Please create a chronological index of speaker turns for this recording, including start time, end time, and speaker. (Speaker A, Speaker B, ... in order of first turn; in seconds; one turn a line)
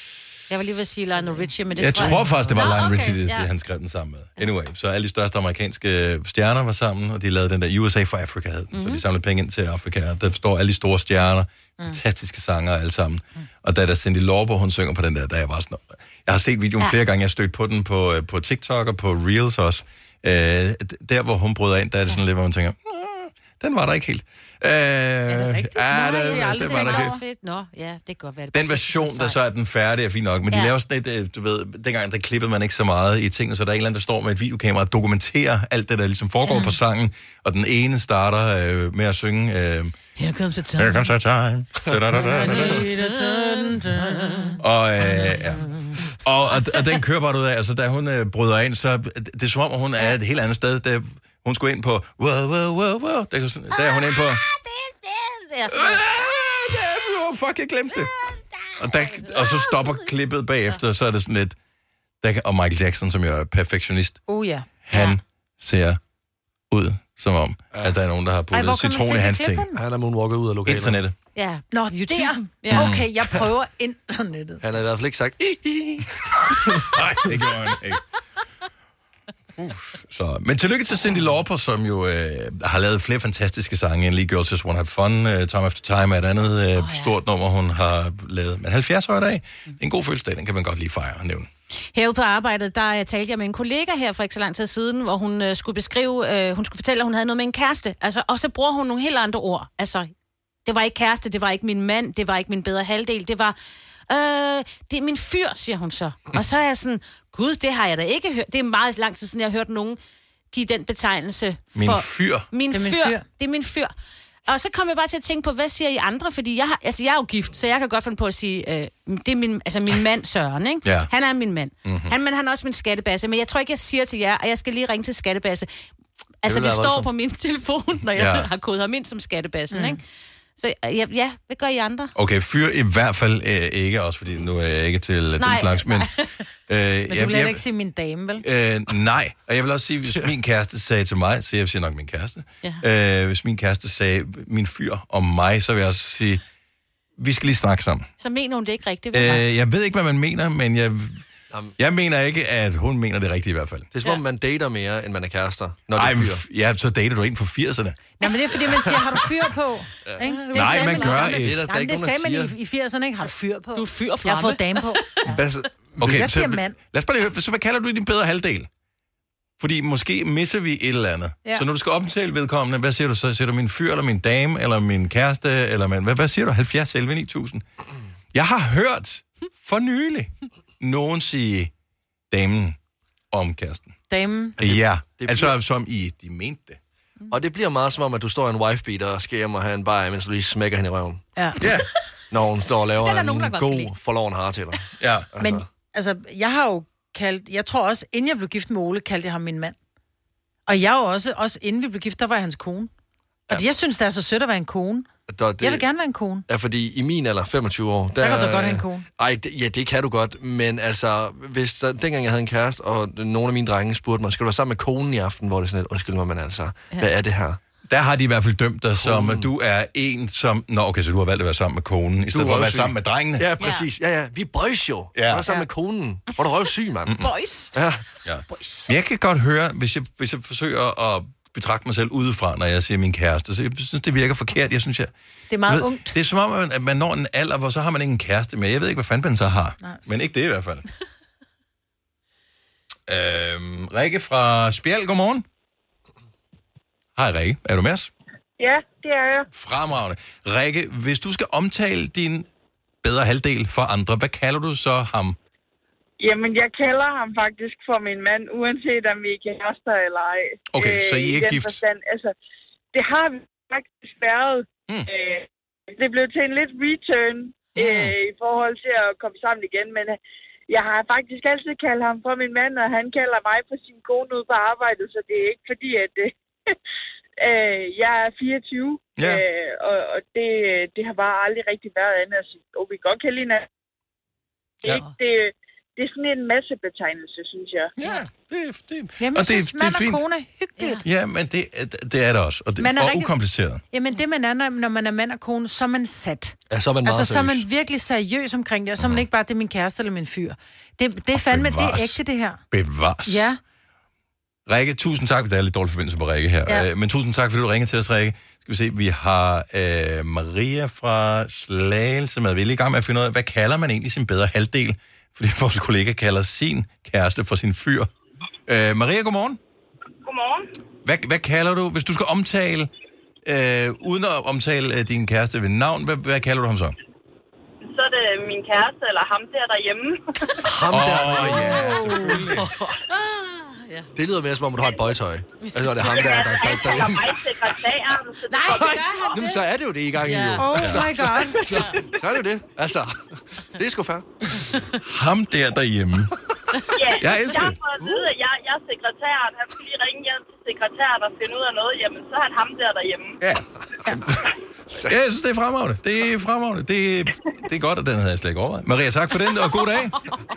Speaker A: 0.5-3.5
Speaker B: 1.8-27.2
Speaker A: 8.7-9.0
Speaker C: 25.3-27.2
Speaker A: 26.1-29.4
Speaker B: 28.5-40.0
Speaker A: 40.2-41.1
Speaker B: 40.8-42.8
Speaker C: 42.2-46.0
Speaker A: 42.7-44.6
Speaker B: 44.6-45.6
Speaker B: 46.2-54.4
Speaker A: 54.5-56.1
Speaker B: 55.7-61.6
Speaker A: 59.1-60.0
Speaker B: 62.2-64.2
Speaker C: 64.3-65.1
Speaker B: 64.8-66.0
Speaker B: 66.7-69.7
Speaker C: 68.5-69.8
Speaker D: 69.8-71.0
Speaker B: 70.7-71.1
Speaker A: 71.3-72.9
Speaker C: 71.7-74.6
Speaker B: 72.7-73.1
Speaker D: 74.6-76.9
Speaker B: 76.9-78.0
Speaker B: 79.6-91.5
Speaker A: 86.8-87.1
Speaker A: 91.9-100.1
Speaker A: 100.7-103.6
Speaker A: 104.1-110.0
Speaker A: 110.5-113.9
Speaker B: 111.8-112.5
Speaker C: 112.7-113.2
Speaker A: 114.5-125.7
Speaker B: 121.8-122.1
Speaker A: 126.4-130.0
Speaker D: 126.5-127.1
Speaker B: 128.1-128.5
Speaker C: 129.7-130.0
Speaker A: 130.6-132.1
Speaker B: 132.2-136.1
Speaker A: 135.4-136.4
Speaker B: 136.7-137.6
Speaker C: 137.1-138.4
Speaker B: 138.4-146.4
Speaker B: 147.2-148.1
Speaker A: 148.2-149.4
Speaker B: 149.1-151.3
Speaker B: 151.8-153.9
Speaker D: 153.9-156.4
Speaker B: 155.9-158.0
Speaker C: 158.2-165.0
Speaker D: 160.1-160.3
Speaker A: 160.2-161.2
Speaker B: 160.5-161.6
Speaker D: 161.2-162.6
Speaker A: 163.8-165.2
Speaker D: 165.2-166.2
Speaker B: 166.0-168.7
Speaker C: 166.0-166.8
Speaker B: 169.6-177.7
Speaker B: 178.3-181.7
Speaker B: 182.3-182.8
Speaker B: 183.3-183.9
Speaker C: 184.1-184.6
Speaker D: 184.6-185.5
Speaker B: 184.6-186.8
Speaker D: 187.3-191.2
Speaker B: 191.6-191.9
Speaker D: 192.3-195.6
Speaker A: 193.0-193.9
Speaker B: 195.0-195.3
Speaker C: 195.4-199.8
Speaker C: 200.7-202.9
Speaker C: 203.5-206.5
Speaker D: 205.3-205.9
Speaker D: 206.5-217.6
Speaker C: 208.2-209.1
Speaker B: 217.9-223.5
Speaker D: 219.0-219.5
Speaker D: 222.3-227.2
Speaker A: 223.6-223.9
Speaker B: 225.2-225.5
Speaker A: 227.2-227.7
Speaker D: 227.7-228.0
Speaker B: 228.2-235.1
Speaker C: 228.5-228.9
Speaker C: 235.5-236.2
Speaker B: 235.7-240.8
Speaker C: 239.8-240.1
Speaker B: 243.1-245.4
Speaker B: 247.2-248.1
Speaker E: 248.6-249.5
Speaker B: 249.5-252.5
Speaker B: 253.0-255.4
Speaker E: 256.2-262.3
Speaker B: 260.7-261.8
Speaker E: 262.9-276.8
Speaker B: 267.8-268.1
Speaker E: 277.4-283.7
Speaker E: 284.8-287.9
Speaker B: 288.0-290.2
Speaker C: 289.2-291.0
Speaker B: 291.0-293.8
Speaker C: 292.8-293.3
Speaker C: 293.9-302.6
Speaker D: 296.7-297.6
Speaker B: 299.0-299.2
Speaker B: 301.3-302.2
Speaker B: 302.7-303.5
Speaker C: 303.3-303.6
Speaker B: 304.7-318.1
Speaker B: 318.7-319.6
Speaker E: 320.2-320.7
Speaker B: 321.1-322.9
Speaker B: 323.4-327.0
Speaker E: 327.8-330.2
Speaker D: 330.6-333.0
Speaker B: 330.9-332.7
Speaker A: 333.1-334.1
Speaker D: 334.2-337.5
Speaker A: 335.6-336.1
Speaker E: 336.1-339.5
Speaker A: 338.5-339.6
Speaker D: 338.7-344.8
Speaker A: 340.2-340.8
Speaker C: 340.6-341.6
Speaker B: 340.8-341.1
Speaker A: 341.6-342.1
Speaker B: 345.0-346.3
Speaker E: 346.9-353.4
Speaker B: 347.2-347.8
Speaker D: 348.0-348.3
Speaker B: 353.4-354.5
Speaker D: 354.9-355.1
Speaker B: 355.0-360.2